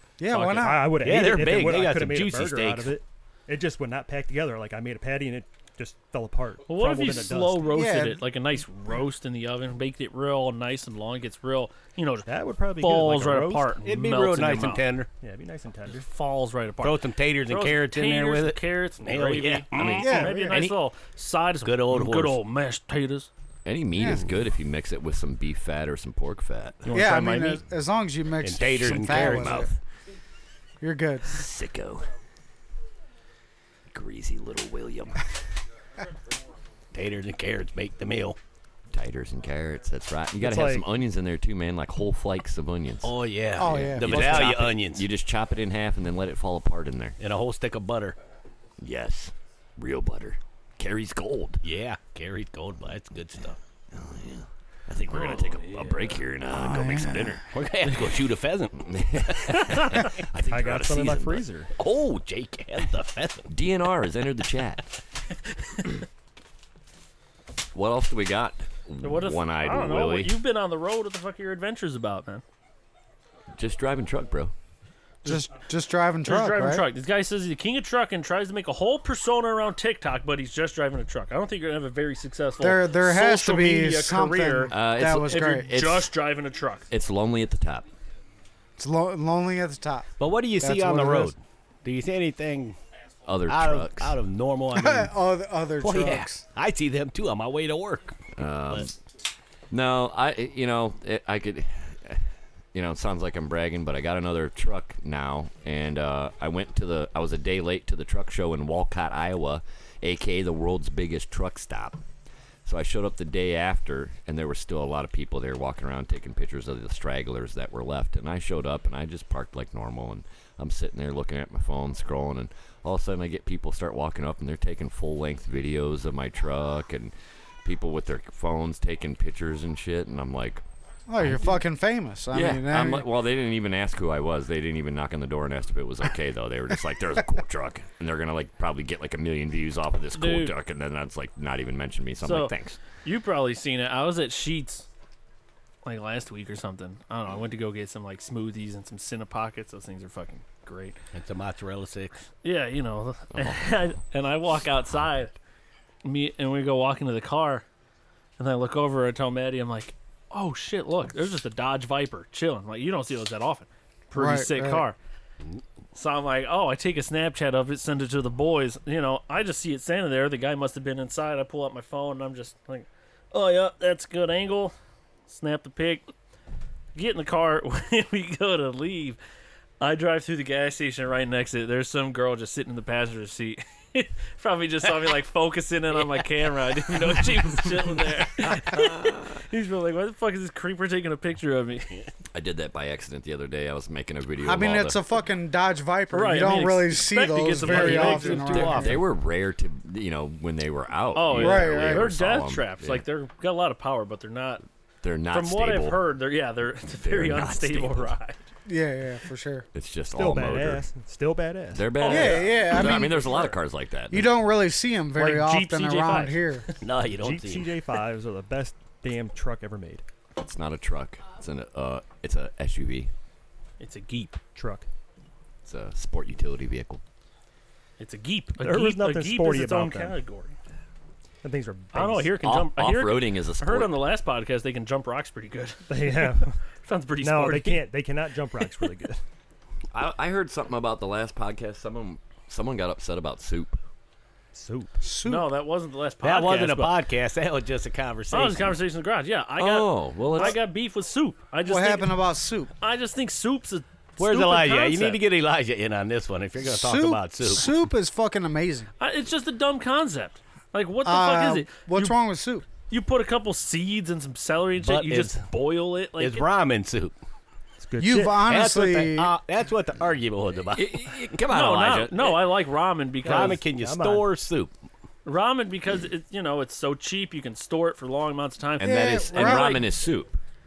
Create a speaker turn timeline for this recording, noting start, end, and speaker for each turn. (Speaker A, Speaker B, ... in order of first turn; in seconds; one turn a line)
Speaker A: 0.2-1.0
Speaker B: 0.4-7.8
Speaker C: 1.0-3.0
Speaker D: 6.7-14.8
Speaker A: 7.7-8.2
Speaker B: 12.2-13.8
Speaker C: 13.8-15.1
Speaker B: 15.2-16.1
Speaker D: 15.9-23.3
Speaker C: 16.8-20.2
Speaker E: 19.8-20.7
Speaker A: 20.0-20.6
Speaker C: 21.6-22.4
Speaker E: 23.6-26.9
Speaker A: 24.0-24.2
Speaker D: 26.9-27.6
Speaker A: 26.9-29.7
Speaker C: 28.4-29.7
Speaker E: 28.9-29.7
Speaker A: 30.8-31.4
Speaker E: 31.3-32.1
Speaker E: 33.9-35.3
Speaker C: 36.9-38.4
Speaker E: 38.9-47.2
Speaker B: 40.4-40.9
Speaker C: 43.0-45.1
Speaker A: 43.6-44.5
Speaker C: 47.2-48.2
Speaker E: 48.8-51.6
Speaker C: 51.6-53.6
Speaker E: 53.9-57.5
Speaker C: 55.2-55.9
Speaker A: 56.5-57.3
Speaker C: 57.4-59.7
Speaker E: 58.8-62.3
Speaker B: 60.5-61.7
Speaker C: 61.8-63.5
Speaker E: 63.5-64.9
Speaker E: 67.7-70.4
Speaker D: 69.0-72.4
Speaker E: 73.5-74.5
Speaker D: 75.2-75.5
Speaker A: 75.2-76.9
Speaker D: 76.2-86.9
Speaker A: 82.6-85.7
Speaker E: 84.7-86.2
Speaker E: 86.9-87.9
Speaker A: 88.8-91.3
Speaker C: 90.2-92.8
Speaker E: 93.3-94.2
Speaker C: 93.5-95.1
Speaker A: 94.7-96.4
Speaker C: 95.8-98.2
Speaker E: 98.4-98.9
Speaker E: 99.7-102.2
Speaker E: 102.7-112.0
Speaker E: 112.7-127.1
Speaker E: 127.7-130.6
Speaker A: 131.1-133.1
Speaker E: 131.2-131.6
Speaker E: 132.3-142.8
Speaker D: 140.2-140.5
Speaker D: 142.2-144.9
Speaker D: 145.8-151.0
Speaker C: 151.1-152.2
Speaker D: 152.4-155.3
Speaker E: 153.4-153.8
Speaker D: 156.0-157.7
Speaker D: 158.4-165.0
Speaker A: 164.1-164.8
Speaker D: 165.9-174.7
Speaker D: 175.3-176.1
Speaker D: 176.9-179.2
Speaker D: 179.8-192.1
Speaker E: 188.6-189.3
Speaker E: 192.3-195.0
Speaker A: 194.4-199.0
Speaker D: 196.1-198.9
Speaker B: 197.9-198.3
Speaker E: 198.5-203.0
Speaker D: 201.2-204.6
Speaker A: 201.3-202.1
Speaker E: 205.0-206.0
Speaker D: 205.3-208.4
Speaker E: 207.0-208.2
Speaker A: 208.7-209.7
Speaker E: 209.7-210.9
Speaker B: 210.1-212.1
Speaker E: 211.7-214.3
Speaker D: 212.0-212.7
Speaker A: 212.1-213.5
Speaker A: 214.1-216.7
Speaker D: 215.2-216.7
Speaker C: 216.8-217.8
Speaker B: 217.2-220.0
Speaker E: 220.4-223.1
Speaker D: 223.8-224.4
Speaker B: 224.6-224.9
Speaker E: 225.7-227.0
Speaker D: 228.0-230.6
Speaker B: 228.6-230.2
Speaker B: 231.4-232.4
Speaker D: 231.9-237.9
Speaker E: 232.4-233.9
Speaker B: 235.9-236.6
Speaker B: 237.2-239.2
Speaker E: 239.9-243.8
Speaker B: 244.5-245.0
Speaker A: 245.0-245.5
Speaker D: 245.2-247.0
Speaker C: 246.2-248.8
Speaker D: 248.3-252.2
Speaker E: 249.6-250.6
Speaker A: 251.7-252.7
Speaker D: 252.8-255.2
Speaker C: 254.2-257.7
Speaker A: 256.6-258.9
Speaker D: 259.0-262.2
Speaker A: 261.0-262.7
Speaker D: 262.9-266.5
Speaker C: 264.8-265.4
Speaker C: 266.2-267.1
Speaker B: 267.8-268.4
Speaker A: 268.0-269.4
Speaker C: 268.4-271.0
Speaker E: 270.7-272.5
Speaker D: 271.5-273.6
Speaker C: 273.2-274.7
Speaker B: 273.3-274.3
Speaker D: 275.2-279.8
Speaker A: 278.8-279.8
Speaker E: 278.8-280.4